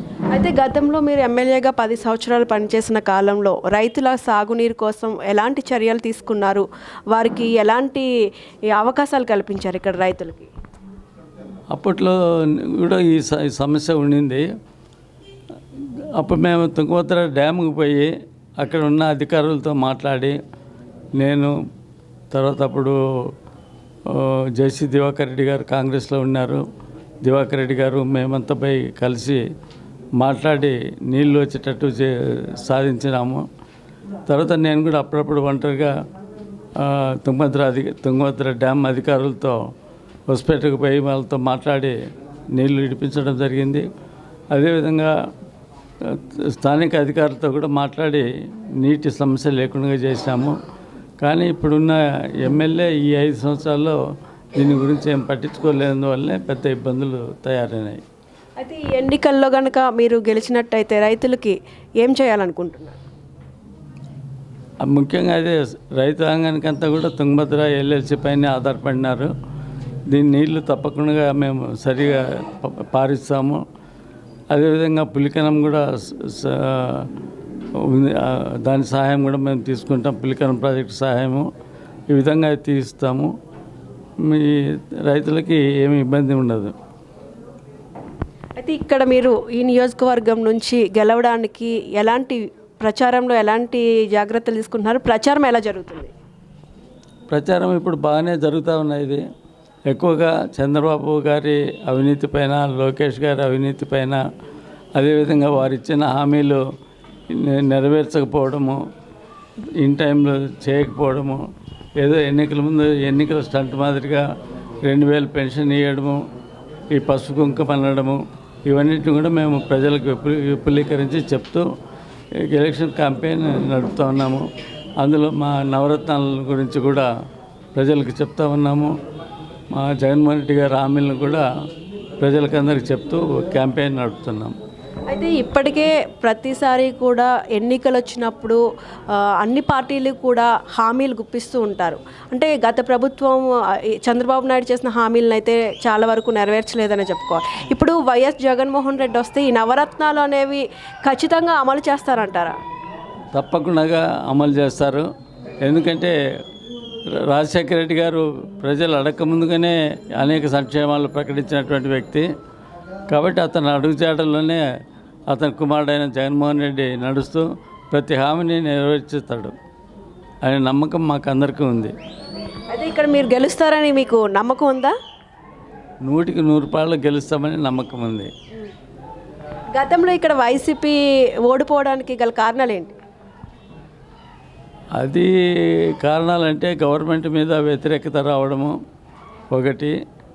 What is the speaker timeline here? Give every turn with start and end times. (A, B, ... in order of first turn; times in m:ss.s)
0:00.3-0:08.1 A
0:08.7-0:10.5 A
0:11.7-0:12.1 B
0:12.7-0:14.4 B
0:15.8-0:20.4 B
0:21.2-0:21.5 B
0:22.3-0:23.0 B
0:24.1-0:26.6 B
0:27.2-0:29.4 B
0:30.2-0:32.1 B
0:32.6-0:33.4 B
0:34.3-0:35.9 B
0:36.8-0:39.6 B
0:40.3-0:42.0 B
0:42.6-0:43.8 B
0:44.5-0:45.1 B
0:46.0-0:48.2 B
0:48.8-0:50.5 B
0:51.2-0:54.0 B
0:54.6-0:58.0 B
0:58.6-1:03.0 A
1:04.8-1:09.3 B
1:10.1-1:13.6 B
1:14.5-1:17.1 B
1:17.8-1:21.5 B
1:22.1-1:23.3 B
1:24.3-1:26.7 B
1:28.6-1:36.1 A
1:37.3-1:39.2 B
1:39.9-1:44.2 B
1:45.0-1:46.6 B
1:47.3-1:48.8 B
1:49.8-1:51.4 B
1:52.0-1:54.2 B
1:54.9-1:56.2 B
1:56.9-2:01.7 B
2:02.5-2:04.4 B
2:05.0-2:07.1 B
2:07.8-2:08.9 B
2:09.7-2:11.4 B
2:12.2-2:14.5 B
2:15.1-2:18.6 A
2:19.1-2:23.5 A
2:24.0-2:32.6 A
2:33.3-2:35.0 B
2:35.6-2:36.1 B
2:37.3-2:42.3 B
2:43.1-2:44.6 B
2:45.3-2:49.6 B
2:50.4-2:51.9 B
2:52.7-2:54.9 A
2:56.0-2:58.3 B
2:59.7-3:01.0 A
3:01.5-3:03.0 A
3:05.0-3:05.3 B
3:06.0-3:08.8 B
3:09.5-3:10.0 B